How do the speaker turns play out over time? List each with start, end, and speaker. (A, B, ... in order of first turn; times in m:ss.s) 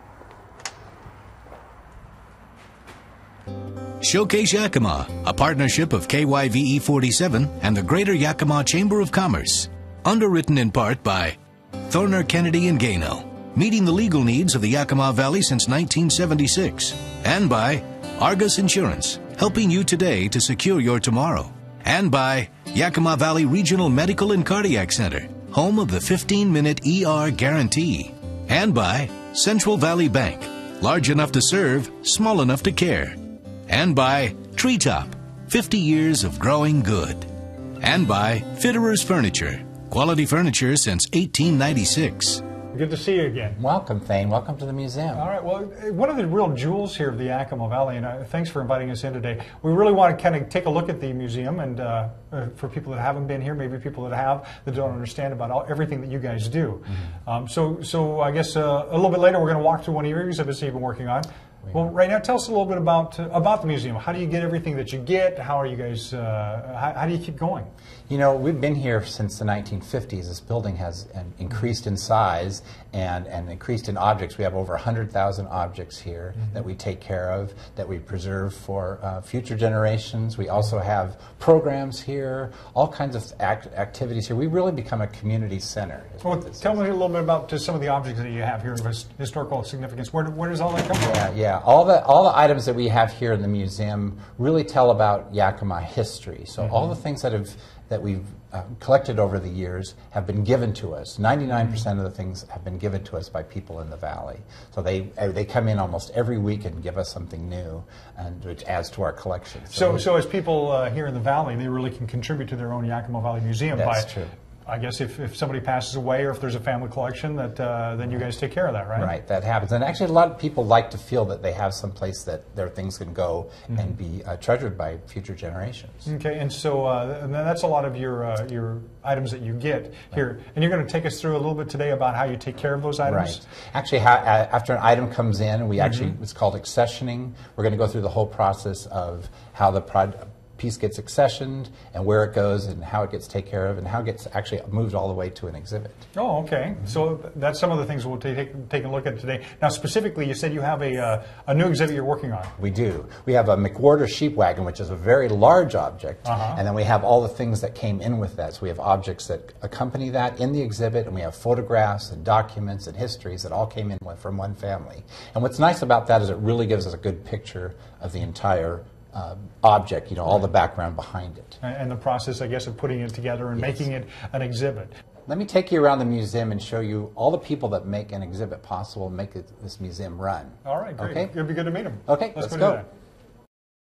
0:04.0-0:42.4 A
0:42.7-0:43.6 B
0:43.6-0:45.3 C
0:45.1-1:07.7 B
1:08.1-1:26.8 C
1:26.2-1:31.2 B
1:31.0-1:50.1 C
1:49.7-1:59.1 B
1:53.7-1:54.3 C
1:59.0-2:06.1 C
2:06.1-2:13.5 B
2:13.1-2:26.1 C
2:15.8-2:16.1 B
2:26.2-2:32.6 B
2:32.6-2:51.6 C
2:36.2-2:36.6 B
2:51.6-2:55.0 B
2:53.6-2:53.9 C
2:55.3-3:01.4 C
3:00.6-3:02.9 B
3:02.1-3:02.8 C